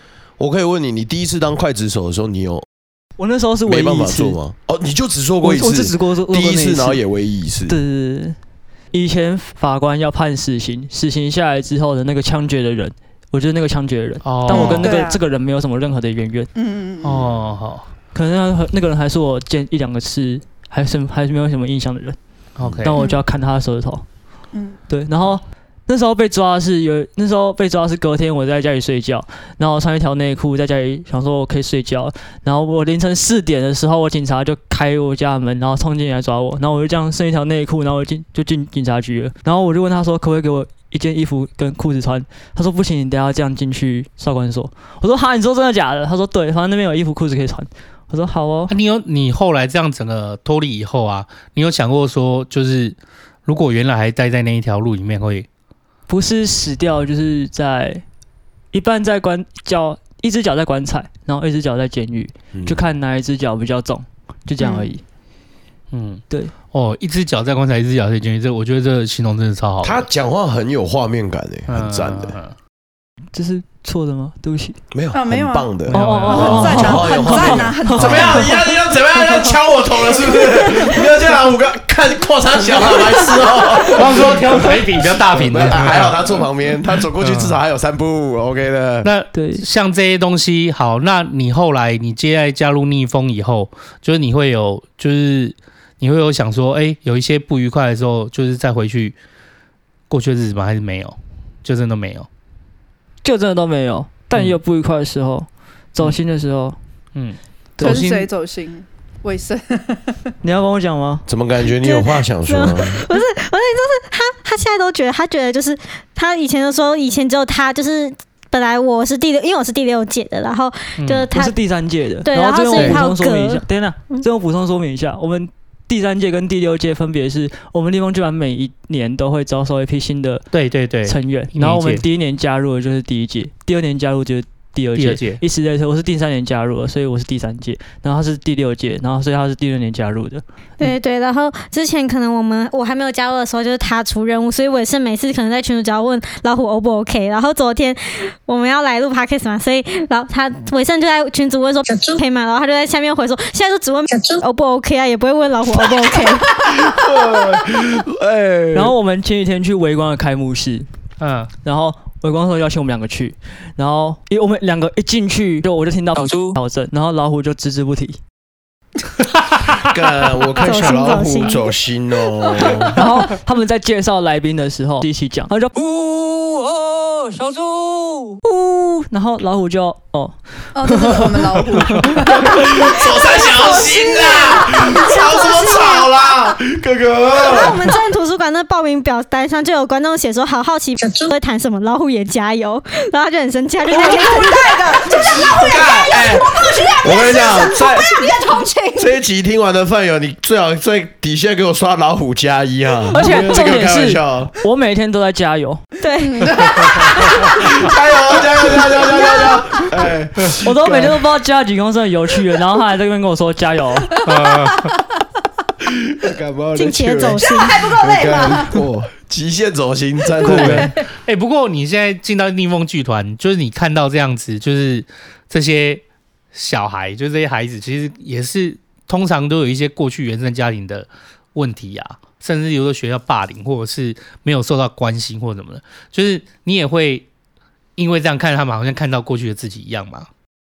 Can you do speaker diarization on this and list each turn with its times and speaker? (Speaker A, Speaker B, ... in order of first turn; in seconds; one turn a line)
Speaker A: 0.4-2.6
Speaker B: 3.2-4.4
Speaker A: 3.6-7.8
Speaker B: 5.4-7.0
Speaker B: 7.7-8.3
Speaker B: 8.9-16.5
Speaker C: 14.2-14.9
Speaker D: 14.5-15.2
Speaker D: 16.5-17.3
Speaker C: 17.0-17.9
Speaker B: 18.1-22.2
Speaker C: 22.6-22.9
Speaker A: 22.6-22.9
Speaker B: 22.8-24.0
Speaker D: 23.0-23.2
Speaker D: 24.5-24.8
Speaker B: 24.9-48.7
Speaker C: 48.7-55.5
Speaker B: 56.1-58.0
Speaker B: 58.7-65.0
Speaker A: 62.5-62.9
Speaker D: 64.6-64.9
Speaker C: 65.9-70.0
Speaker A: 69.8-72.3
Speaker C: 71.7-72.5
Speaker B: 73.3-74.8
Speaker A: 74.9-89.1
Speaker D: 75.1-75.7
Speaker C: 75.9-77.0
Speaker B: 75.9-78.6
Speaker D: 76.3-78.7
Speaker D: 80.6-81.0
Speaker C: 83.8-86.2
Speaker C: 87.2-87.6
Speaker C: 89.0-99.2
Speaker B: 89.3-89.6
Speaker C: 100.1-102.3
Speaker B: 103.2-106.8
Speaker C: 107.1-108.1
Speaker B: 107.8-108.2
Speaker D: 107.8-110.2
Speaker B: 110.4-111.2
Speaker A: 111.3-113.0
Speaker E: 111.8-121.5
Speaker C: 121.0-121.3
Speaker B: 121.3-130.4
Speaker E: 122.2-124.2
Speaker C: 130.5-132.0
Speaker B: 131.0-140.9
Speaker C: 135.0-135.4
Speaker E: 140.8-156.6
Speaker A: 156.5-158.9
Speaker B: 158.7-160.9
Speaker C: 161.2-161.5
Speaker B: 161.6-168.2
Speaker F: 166.1-166.6
Speaker A: 169.7-173.0
Speaker E: 170.6-171.7
Speaker B: 172.9-175.7
Speaker F: 175.7-178.4
Speaker B: 178.4-182.1
Speaker D: 180.7-185.3
Speaker A: 182.3-187.9
Speaker E: 183.5-186.1
Speaker E: 187.3-195.2
Speaker D: 193.9-199.1
Speaker A: 195.3-198.3
Speaker A: 198.9-204.5
Speaker B: 203.1-205.8
Speaker E: 206.0-206.6
Speaker D: 206.2-209.6
Speaker A: 206.9-211.2
Speaker B: 210.6-214.2
Speaker C: 214.2-214.9
Speaker D: 214.2-214.9
Speaker A: 215.8-220.9
Speaker E: 216.7-217.9
Speaker D: 217.4-218.8
Speaker D: 220.4-221.0
Speaker C: 220.4-237.3
Speaker C: 238.0-240.3